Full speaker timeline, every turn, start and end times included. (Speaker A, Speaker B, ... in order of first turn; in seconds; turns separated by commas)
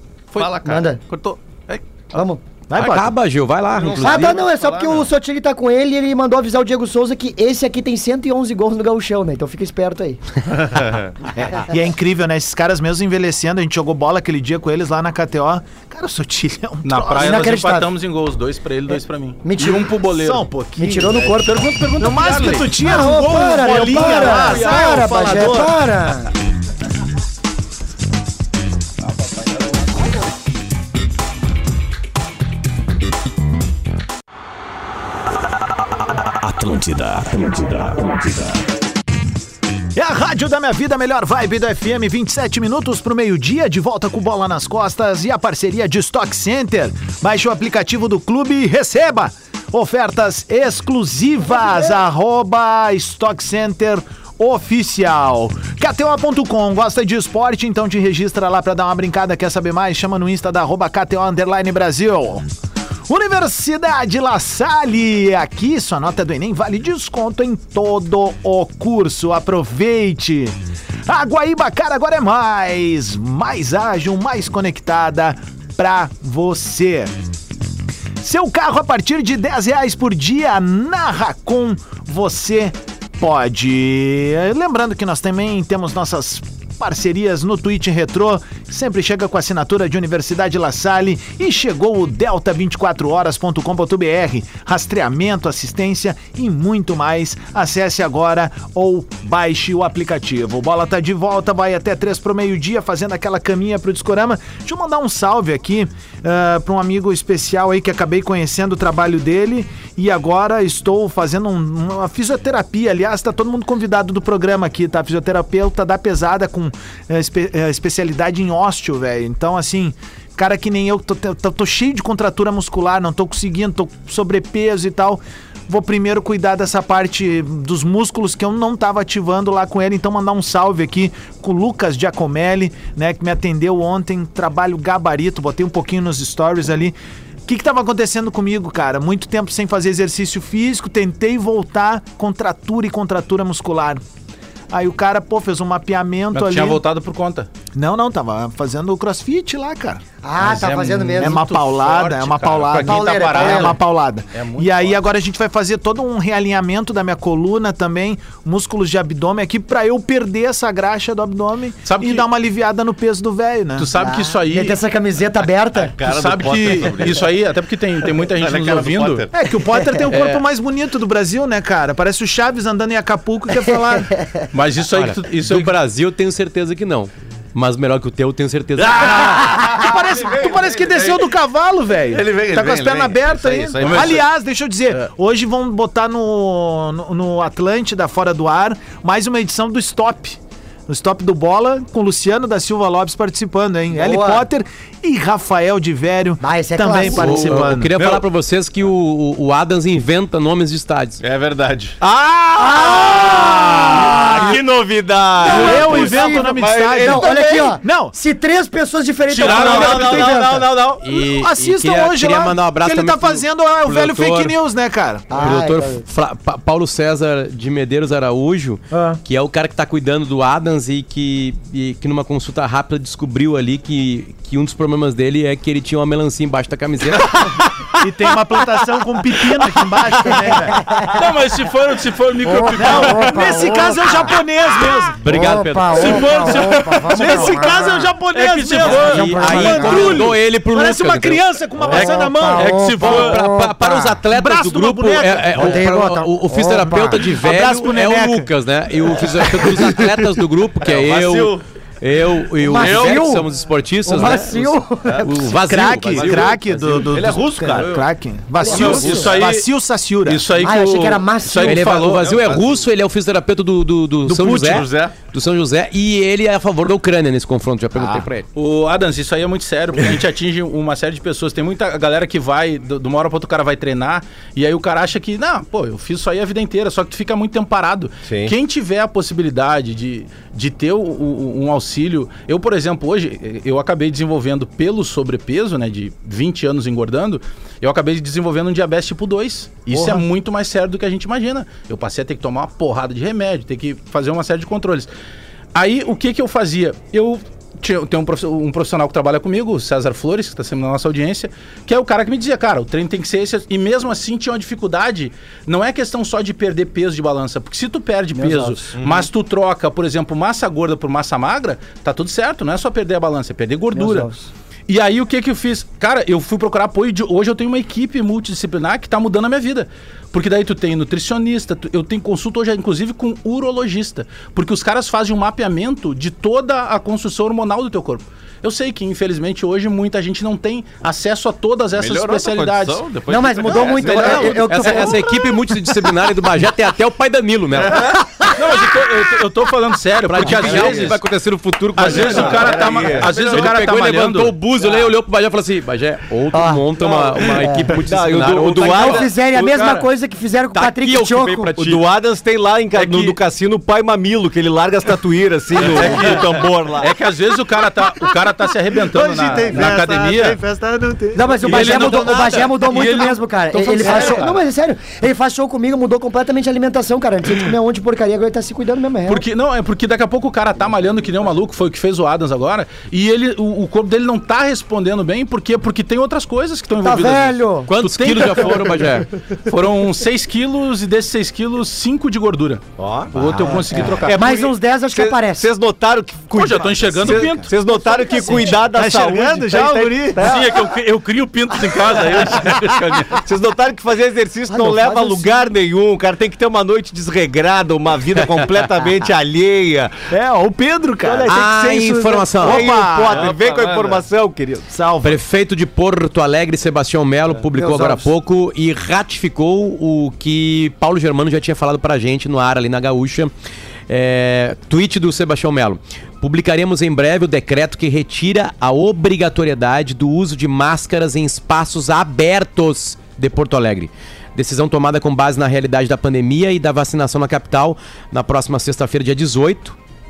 Speaker A: 0.3-2.2, Speaker B: 0.4-0.9, Speaker C: 0.6-1.0, Speaker C: 2.1-2.4, Speaker D: 2.7-3.1, Speaker E: 2.8-4.4, Speaker B: 3.7-5.1, Speaker C: 4.0-10.2, Speaker B: 10.8-11.1, Speaker D: 11.6-17.6, Speaker A: 16.8-20.5, Speaker C: 17.2-17.9, Speaker C: 19.4-19.9, Speaker D: 20.1-21.2, Speaker C: 20.8-21.9, Speaker A: 21.0-22.7, Speaker D: 22.0-25.8, Speaker C: 22.8-26.3, Speaker A: 23.8-25.0, Speaker F: 36.5-37.8, Speaker D: 40.0-62.5, Speaker D: 63.1-70.6, Speaker D: 71.1-77.1, Speaker D: 78.2-136.9, Speaker D: 137.5-144.0, Speaker D: 144.7-146.8, Speaker A: 146.3-147.5, Speaker D: 147.8-150.1, Speaker C: 150.2-151.5, Speaker A: 150.4-153.8, Speaker D: 151.2-163.9, Speaker C: 152.8-153.8, Speaker A: 154.3-155.0, Speaker A: 161.9-162.3, Speaker A: 163.8-164.8, Speaker C: 163.9-166.0, Speaker B: 165.7-167.3, Speaker A: 166.0-169.3, Speaker B: 168.1-169.3, Speaker D: 169.3-174.1, Speaker A: 170.1-170.4, Speaker A: 174.5-175.7, Speaker E: 174.9-179.5, Speaker B: 178.8-181.3, Speaker D: 179.0-197.9, Speaker B: 182.1-184.2, Speaker A: 183.8-184.2, Speaker C: 193.9-194.5, Speaker C: 196.4-197.7, Speaker E: 197.1-201.2, Speaker B: 201.2-202.0, Speaker F: 202.0-207.8, Speaker C: 202.6-204.6, Speaker D: 205.4-208.2, Speaker C: 205.5-210.7, Speaker B: 205.9-207.5, Speaker A: 209.3-210.0, Speaker F: 209.4-211.0, Speaker D: 209.4-210.3, Speaker E: 211.0-214.6, Speaker D: 211.0-215.6, Speaker C: 215.3-216.0, Speaker E: 215.3-227.4, Speaker D: 218.9-219.2, Speaker D: 228.0-230.9, Speaker C: 230.3-231.2, Speaker A: 231.1-233.6, Speaker C: 232.4-234.4, Speaker D: 232.8-235.3, Speaker E: 235.2-236.5, Speaker C: 235.2-238.1, Speaker A: 235.9-240.2, Speaker D: 237.1-243.4, Speaker C: 238.8-240.3, Speaker E: 239.0-241.4, Speaker C: 241.9-244.2, Speaker A: 241.9-243.4, Speaker E: 243.0-257.1, Speaker D: 244.3-245.9, Speaker C: 245.6-247.2, Speaker D: 247.2-248.5, Speaker D: 249.0-250.0, Speaker B: 250.8-251.6, Speaker C: 252.6-253.5, Speaker B: 252.8-253.3, Speaker C: 254.1-255.3, Speaker B: 255.1-258.1, Speaker D: 255.5-260.5, Speaker C: 258.6-259.3, Speaker A: 258.6-259.7, Speaker E: 258.7-259.4, Speaker A: 260.2-262.3, Speaker C: 260.5-261.9, Speaker E: 261.6-268.5, Speaker B: 262.0-262.9, Speaker B: 264.3-265.2, Speaker A: 268.6-295.1, Speaker F: 278.3-278.5, Speaker A: 295.8-314.3, Speaker C: 308.4-308.9, Speaker B: 308.9-309.3, Speaker C: 313.9-314.5, Speaker A: 314.9-333.0, Speaker B: 331.9-334.6, Speaker C: 333.3-335.3, Speaker A: 333.8-334.6, Speaker E: 334.2-338.2, Speaker B: 337.8-338.2, Speaker A: 338.5-341.2, Speaker E: 340.3-350.0, Speaker F: 340.4-341.1, Speaker A: 342.0-344.6, Speaker F: 342.1-343.3, Speaker B: 342.1-343.7, Speaker C: 346.5-346.9, Speaker C: 347.4-348.0, Speaker F: 348.0-349.4, Speaker C: 348.8-351.8, Speaker E: 350.7-352.1, Speaker F: 351.8-357.1, Speaker E: 352.9-353.4, Speaker A: 355.8-360.6, Speaker D: 359.1-362.2, Speaker C: 361.3-369.4, Speaker A: 361.6-364.5, Speaker E: 362.3-362.6, Speaker D: 364.0-364.4, Speaker A: 369.3-379.1, Speaker C: 377.0-377.9, Speaker E: 377.9-379.3, Speaker A: 379.6-384.6, Speaker F: 383.0-390.8, Speaker C: 383.9-385.7, Speaker A: 386.5-387.7, Speaker D: 387.2-390.6, Speaker A: 390.4-393.4, Speaker F: 392.3-400.3, Speaker C: 394.7-395.7, Speaker D: 400.3-401.6, Speaker F: 401.2-404.9, Speaker E: 401.5-402.9, Speaker D: 402.6-403.5, Speaker B: 403.2-404.2, Speaker D: 404.9-405.4, Speaker E: 405.2-413.5, Speaker C: 407.7-408.3, Speaker E: 414.1-430.0